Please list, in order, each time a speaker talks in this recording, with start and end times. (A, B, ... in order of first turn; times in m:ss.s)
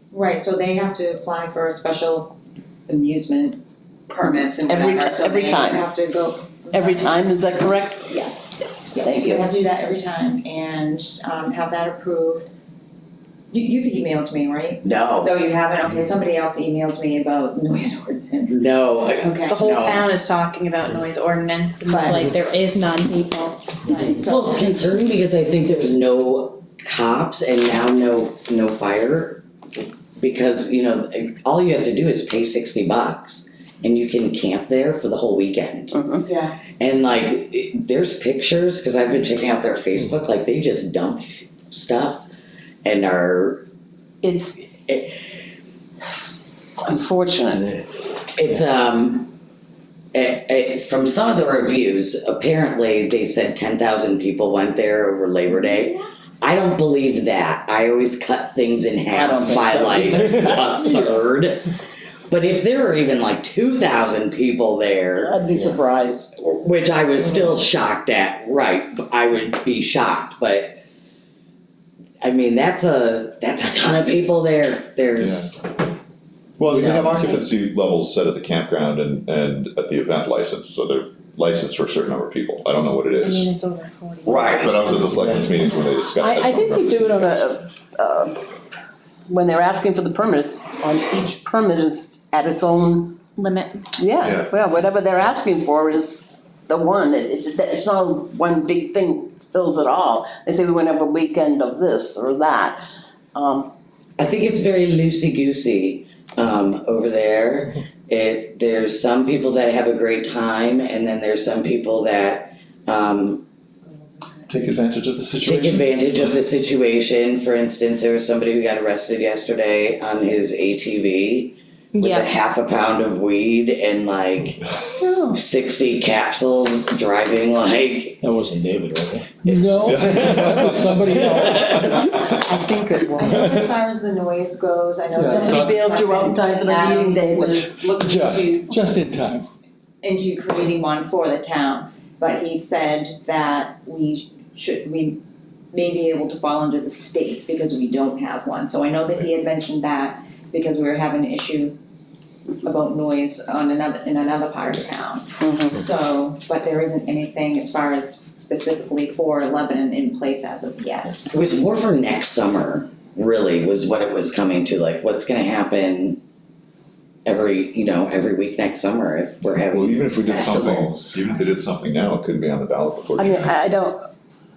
0:00.1-0:02.4 A
0:02.9-0:07.3 A
0:04.2-0:05.9 B
0:06.7-0:08.1 B
0:08.1-0:12.5 A
0:09.0-0:09.5 B
0:13.5-0:19.7 A
0:14.8-0:15.4 C
0:18.5-0:20.1 C
0:19.5-0:24.1 D
0:21.6-0:22.3 A
0:23.8-0:24.8 A
0:24.2-0:29.4 C
0:30.2-0:36.0 C
0:35.9-0:36.3 B
0:36.2-0:36.6 A
0:36.8-0:42.3 C
0:42.8-0:43.6 C
0:44.2-0:44.6 B
0:44.9-0:45.2 C
0:46.8-0:47.6 B
0:47.5-0:47.9 E
0:48.4-0:49.3 C
0:50.1-1:01.7 C
0:59.1-1:01.2 B
0:59.6-1:00.8 E
1:02.3-1:05.8 C
1:05.2-1:06.3 B
1:06.4-1:10.8 C
1:12.2-1:15.7 C
1:15.2-1:15.6 F
1:16.6-1:23.5 F
1:16.7-1:17.4 C
1:23.2-1:24.8 D
1:24.2-1:25.5 C
1:24.4-1:27.5 F
1:26.2-1:28.4 B
1:29.3-1:33.2 B
1:33.4-1:33.8 D
1:34.0-1:42.8 B
1:34.2-1:34.5 F
1:43.3-1:43.7 B
1:44.2-1:53.4 C
1:54.5-1:56.3 F
1:55.4-2:04.7 C
2:02.0-2:02.3 D
2:05.0-2:05.4 B
2:05.3-2:08.2 C
2:08.2-2:10.7 E
2:09.4-2:11.9 G
2:09.8-2:12.3 F
2:11.4-2:12.1 E
2:11.8-2:13.5 B
2:13.2-2:18.8 A
2:13.2-2:13.6 E
2:15.2-2:15.8 G
2:15.2-2:17.8 B
2:18.0-2:19.4 G
2:20.0-2:25.2 A
2:25.7-2:31.8 A
2:32.6-2:41.2 A
2:35.4-2:35.8 B
2:41.3-2:46.2 C
2:47.3-2:51.1 C
2:49.7-2:53.6 F
2:53.2-2:54.1 B